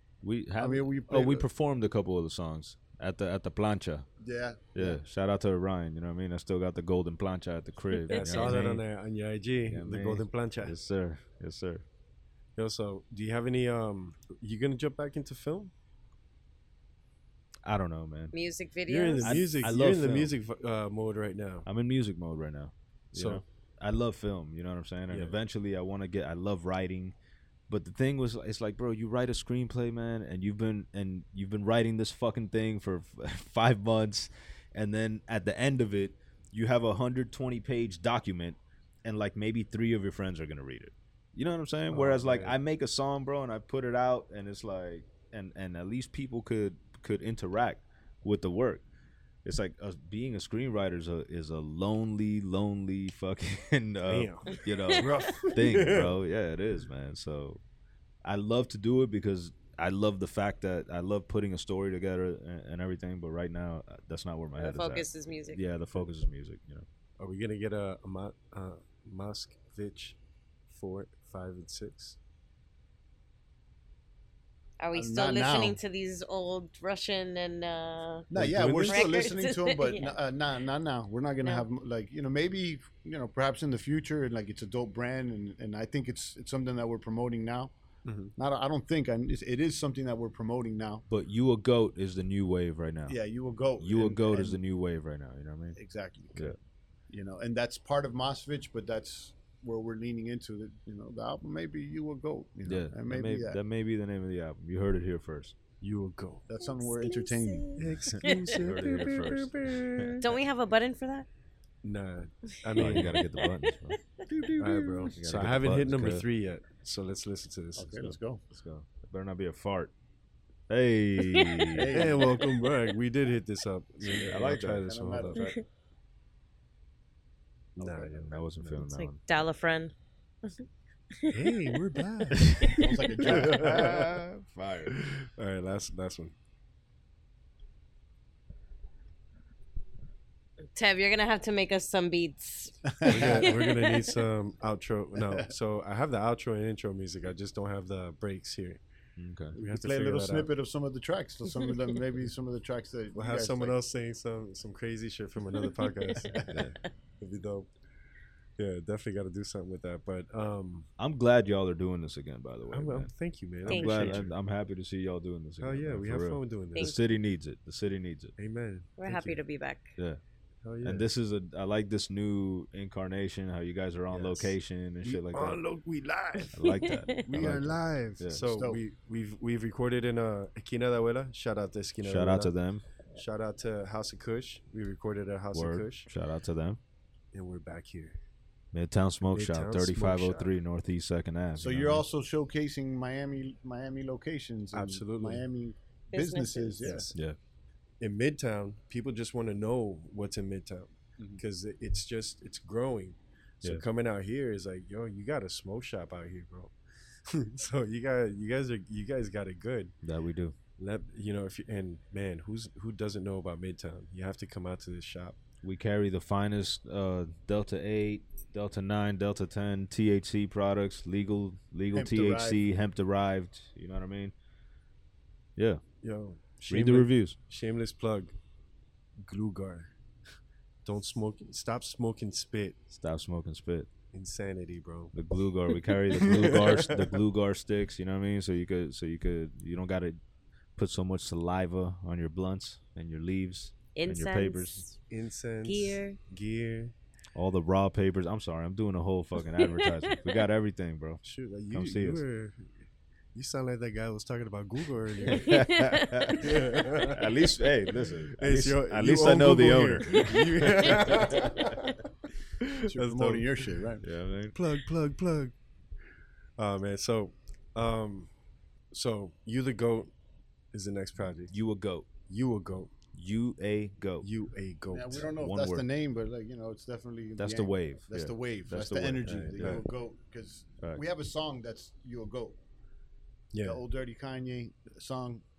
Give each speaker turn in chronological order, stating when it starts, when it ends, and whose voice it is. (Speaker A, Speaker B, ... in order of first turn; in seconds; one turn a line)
Speaker A: 0.2-4.1
Speaker B: 0.6-1.4
Speaker B: 4.2-5.0
Speaker A: 4.7-8.8
Speaker C: 8.1-10.8
Speaker A: 9.7-11.8
Speaker C: 12.6-15.7
Speaker A: 17.6-18.3
Speaker D: 18.3-19.5
Speaker C: 18.9-21.7
Speaker A: 19.2-20.3
Speaker A: 21.6-27.1
Speaker C: 23.1-23.4
Speaker A: 27.7-48.8
Speaker C: 41.9-42.5
Speaker A: 49.4-57.6
Speaker C: 54.1-56.1
Speaker A: 58.2-66.8
Speaker D: 64.6-65.6
Speaker C: 67.2-72.2
Speaker D: 74.8-78.3
Speaker B: 74.9-75.8
Speaker B: 78.3-87.7
Speaker C: 78.3-79.2
Speaker D: 78.8-80.2
Speaker D: 81.4-81.7
Speaker C: 88.0-88.3
Speaker B: 88.3-91.0
Speaker A: 91.1-93.2
Speaker B: 93.1-94.6
Speaker A: 93.8-95.8
Speaker B: 95.8-96.5
Speaker B: 97.1-103.6
Speaker A: 102.6-105.5
Speaker C: 105.8-106.5
Speaker B: 106.5-107.9
Speaker D: 106.6-108.4
Speaker C: 107.8-110.2
Speaker A: 108.1-110.2
Speaker D: 110.2-111.2
Speaker C: 111.8-113.2
Speaker A: 112.8-114.0
Speaker B: 114.3-115.1
Speaker C: 114.6-118.1
Speaker A: 115.1-116.2
Speaker B: 117.8-118.4
Speaker A: 118.0-119.9
Speaker A: 120.7-121.9
Speaker D: 121.3-121.7
Speaker B: 121.7-122.4
Speaker C: 121.9-125.5
Speaker A: 124.0-124.9
Speaker B: 124.4-125.6
Speaker C: 127.8-128.8
Speaker B: 127.8-128.1
Speaker A: 127.9-129.2
Speaker D: 128.8-131.5
Speaker C: 131.3-134.1
Speaker A: 132.3-134.9
Speaker D: 132.6-132.9
Speaker B: 132.8-134.1
Speaker C: 134.9-136.3
Speaker D: 140.7-144.1
Speaker B: 143.0-143.5
Speaker C: 143.0-148.8
Speaker B: 145.2-145.5
Speaker A: 149.2-149.5
Speaker C: 149.5-150.5
Speaker B: 149.5-153.8
Speaker C: 153.1-157.7
Speaker B: 156.2-156.6
Speaker A: 156.5-156.8
Speaker C: 158.6-160.9
Speaker A: 161.0-163.1
Speaker C: 162.7-164.3
Speaker D: 163.7-164.2
Speaker A: 163.7-168.3
Speaker C: 165.6-166.9
Speaker C: 168.4-169.4
Speaker D: 169.0-169.9
Speaker C: 170.6-171.1
Speaker A: 170.8-175.6
Speaker C: 174.1-182.5
Speaker A: 176.5-178.4
Speaker D: 176.7-177.3
Speaker B: 177.3-178.8
Speaker A: 182.0-182.8
Speaker C: 183.2-186.1
Speaker A: 185.5-186.8
Speaker C: 187.3-188.2
Speaker A: 188.7-192.0
Speaker C: 189.3-190.5
Speaker B: 191.6-197.1
Speaker C: 194.7-195.4
Speaker D: 196.1-196.9
Speaker C: 196.8-197.2
Speaker C: 198.0-206.7
Speaker C: 207.2-209.9
Speaker A: 210.0-210.5
Speaker C: 210.8-215.3
Speaker A: 215.6-224.3
Speaker B: 221.9-222.6
Speaker A: 225.6-225.8
Speaker C: 226.0-228.3
Speaker A: 226.7-227.3
Speaker C: 229.2-229.9
Speaker C: 230.8-232.8
Speaker A: 232.9-233.9
Speaker C: 234.1-235.1
Speaker A: 235.1-240.2
Speaker C: 236.1-237.1
Speaker A: 240.8-244.8
Speaker D: 243.9-245.0
Speaker C: 245.1-246.9
Speaker D: 245.6-246.2
Speaker A: 247.3-252.2
Speaker D: 249.6-250.4
Speaker C: 251.2-252.7
Speaker C: 253.3-255.5
Speaker A: 255.3-261.5
Speaker D: 255.3-256.4
Speaker C: 256.4-257.2
Speaker C: 258.3-262.0
Speaker C: 262.6-263.6
Speaker B: 262.9-264.1
Speaker A: 264.0-264.6
Speaker C: 264.5-265.5
Speaker C: 266.6-268.3
Speaker C: 268.9-270.1
Speaker C: 270.7-271.6
Speaker A: 271.5-272.1
Speaker C: 272.3-272.9
Speaker A: 273.1-274.3
Speaker C: 274.2-275.3
Speaker B: 274.9-282.6
Speaker A: 275.2-275.8
Speaker A: 277.4-279.8
Speaker C: 279.3-279.8
Speaker C: 283.5-283.8
Speaker B: 283.6-285.4